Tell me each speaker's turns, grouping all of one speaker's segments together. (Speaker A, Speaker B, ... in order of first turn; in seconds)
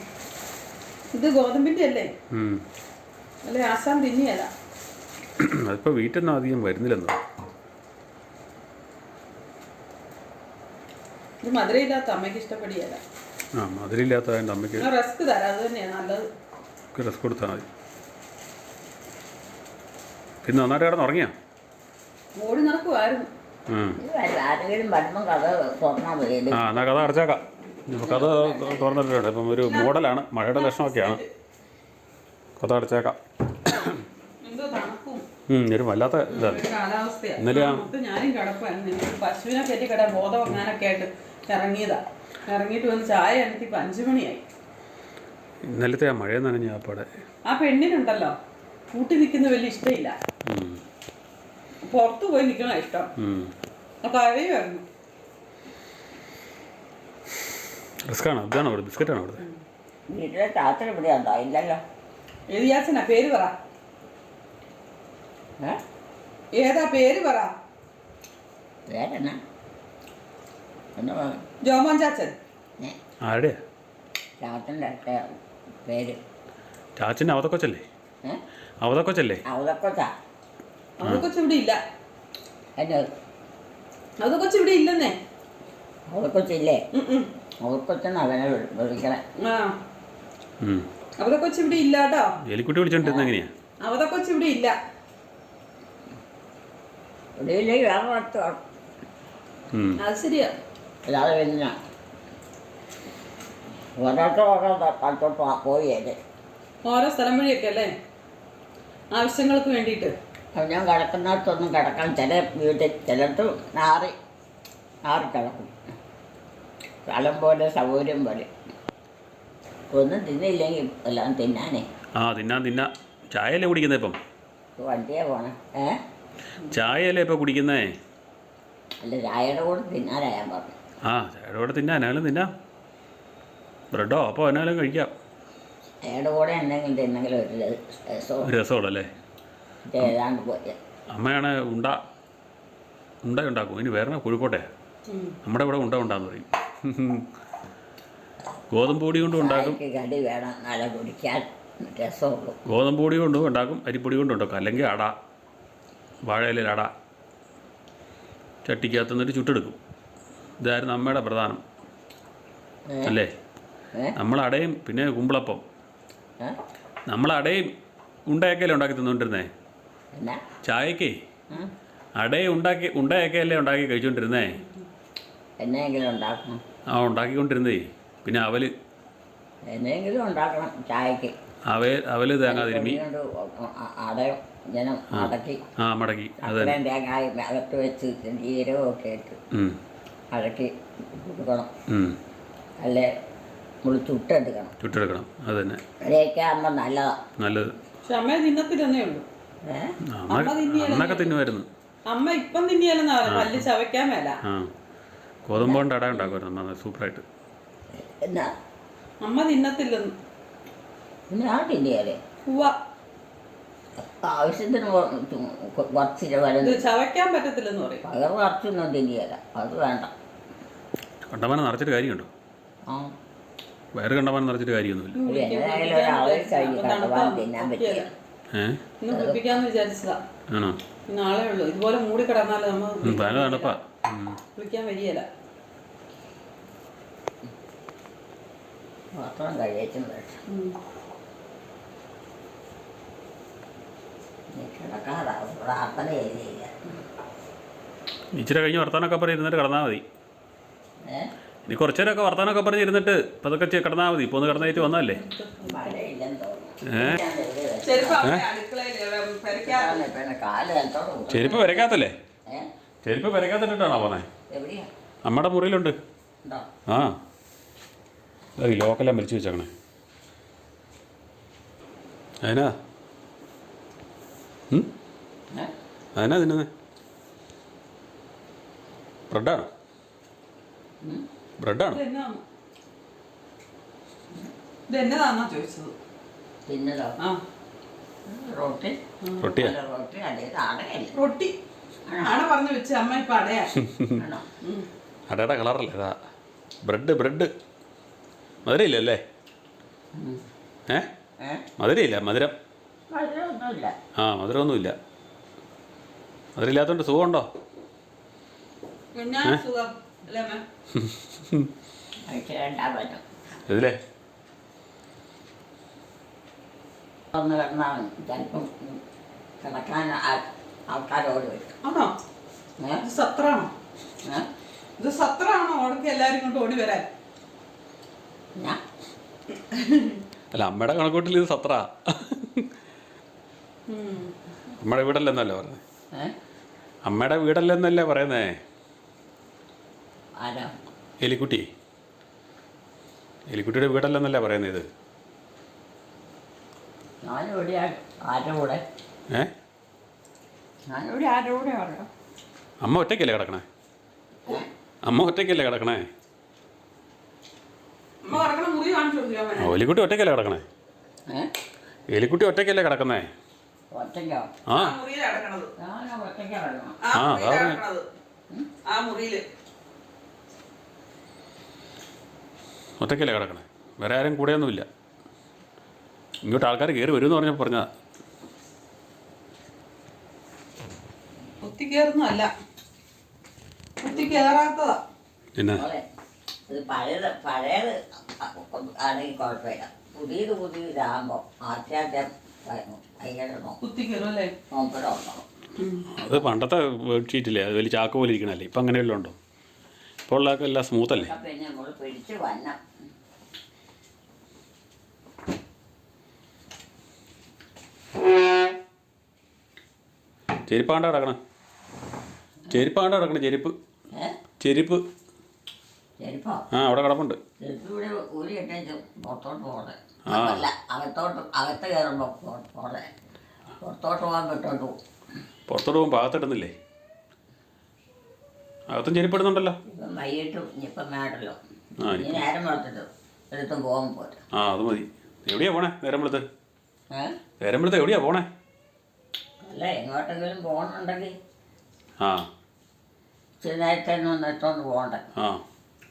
Speaker A: 1.1-2.1, 3.4-4.5, 11.4-13.0, 14.8-16.3, 22.4-23.3, 29.6-29.9, 30.5-31.3, 34.4-35.2, 36.3-44.4, 47.5-48.3, 48.9-50.1, 51.8-53.1, 54.0-54.8, 62.5-63.5, 66.5-67.5, 71.6-72.3, 81.0-81.8, 84.2-85.2, 86.9-87.3, 89.4-89.8, 91.2-92.3, 93.8-94.8, 100.0-100.5, 106.8-107.9, 109.1-110.1, 145.1-145.4, 198.0-199.2, 200.3-201.4, 202.1-204.4, 209.2-210.1, 212.4-212.8, 216.6-218.0, 225.2-228.1, 229.0-230.2, 231.1-233.7, 234.6-235.3, 240.5-240.8, 254.5-255.9, 257.8-260.0, 281.9-282.4, 284.9-285.9, 289.2-289.5, 291.1-291.5, 292.2-293.8, 294.6-294.9, 309.1-310.6, 321.8-322.1, 323.0-323.7, 325.0-327.1, 329.7-330.2, 333.9-334.3, 358.2-359.7, 364.7-365.7, 367.0-368.1, 368.8-369.4, 381.6-382.5, 384.0-385.0, 393.8-394.5, 395.8-396.1
Speaker B: 2.3-2.6, 5.4-7.2, 13.6-14.9, 16.9-17.6, 20.4-21.3, 23.7-24.0, 26.5-31.2, 32.6-34.0, 35.5-36.6, 37.4-37.9, 45.6-47.1, 50.5-50.8, 53.2-53.5, 58.0-59.4, 73.2-73.6, 77.0-77.8, 78.8-79.4, 90.6-90.9, 92.4-93.5, 99.7-100.0, 122.2-124.2, 126.7-127.9, 131.1-132.5, 133.9-135.1, 138.4-139.1, 141.1-142.0, 143.2-144.7, 145.4-147.3, 148.7-149.8, 152.7-155.1, 156.3-156.9, 158.6-159.8, 160.6-161.6, 163.0-163.3, 164.2-165.6, 167.1-167.7, 168.3-169.5, 170.6-171.1, 172.2-174.6, 176.9-178.7, 181.7-183.0, 185.1-186.8, 189.5-189.8, 191.9-192.2, 194.8-195.8, 197.4-197.7, 200.1-201.7, 203.2-203.7, 204.4-204.7, 205.4-207.2, 221.3-222.3, 223.9-225.2, 228.5-228.8, 230.5-230.8, 233.0-234.4, 248.3-250.0, 251.7-255.2, 256.8-257.2, 261.3-262.1, 263.0-264.3, 265.2-266.0, 266.9-267.2, 268.6-269.7, 272.4-272.7, 276.1-276.7, 279.3-279.7, 281.6-282.0, 289.4-289.7, 293.8-294.2, 295.3-296.1, 296.8-297.5, 298.6-299.2, 301.8-302.6, 304.2-304.9, 306.6-307.5, 310.9-311.7, 313.7-313.9, 330.5-332.7, 334.8-335.8, 337.0-338.6, 341.2-341.7, 343.5-344.9, 352.8-353.6, 355.0-356.1, 359.6-360.6, 362.1-363.3, 364.7-364.9, 367.1-367.8, 373.0-374.9, 376.4-377.9, 385.6-385.9, 396.1-399.4, 400.3-401.3, 410.7-411.4, 412.7-413.7, 414.6-415.0, 416.7-417.4, 420.3-420.7, 425.7-426.7, 428.9-429.8, 432.0-432.4, 434.5-436.4, 437.6-438.5, 442.2-442.5, 445.4-445.6
Speaker C: 24.0-26.9, 28.0-28.9, 60.1-61.8, 68.9-69.4, 71.0-71.4, 74.4-75.3, 75.8-76.2, 79.5-80.1, 82.8-83.1, 86.1-86.8, 87.6-89.2, 93.0-93.3, 97.4-98.6, 101.1-101.8, 104.0-106.2, 110.5-114.1, 115.0-115.8, 117.0-118.5, 119.9-121.8, 124.8-126.0, 129.0-130.7, 136.0-138.5, 139.9-140.8, 149.3-152.6, 162.9-163.1, 170.1-170.4, 175.6-176.6, 179.7-181.3, 182.4-185.6, 186.4-189.4, 190.3-191.7, 192.8-193.1, 193.8-194.7, 196.0-197.2, 199.6-199.9, 205.6-206.3, 207.9-208.5, 211.3-212.2, 214.2-216.8, 218.0-220.1, 222.8-223.1, 225.2-228.1, 229.1-229.4, 239.1-240.4, 244.5-246.9, 251.0-251.3, 255.6-258.3, 259.6-261.9, 264.5-264.9, 266.4-266.7, 286.7-287.2, 288.3-289.0, 289.5-291.1, 292.1-292.4, 294.2-294.5, 300.1-300.4, 301.4-301.6, 303.1-303.9, 312.3-313.2, 317.3-319.0, 319.6-321.7, 340.4-340.7, 347.2-348.8, 350.9-352.1, 363.9-364.6, 365.8-367.0, 384.1-384.4, 385.7-386.1, 386.7-393.8, 394.7-395.4, 396.2-396.5, 401.2-402.8, 416.2-416.6, 417.6-423.1, 423.8-425.0, 429.9-431.6, 432.1-434.4, 437.1-437.4, 439.6-441.4, 443.6-445.3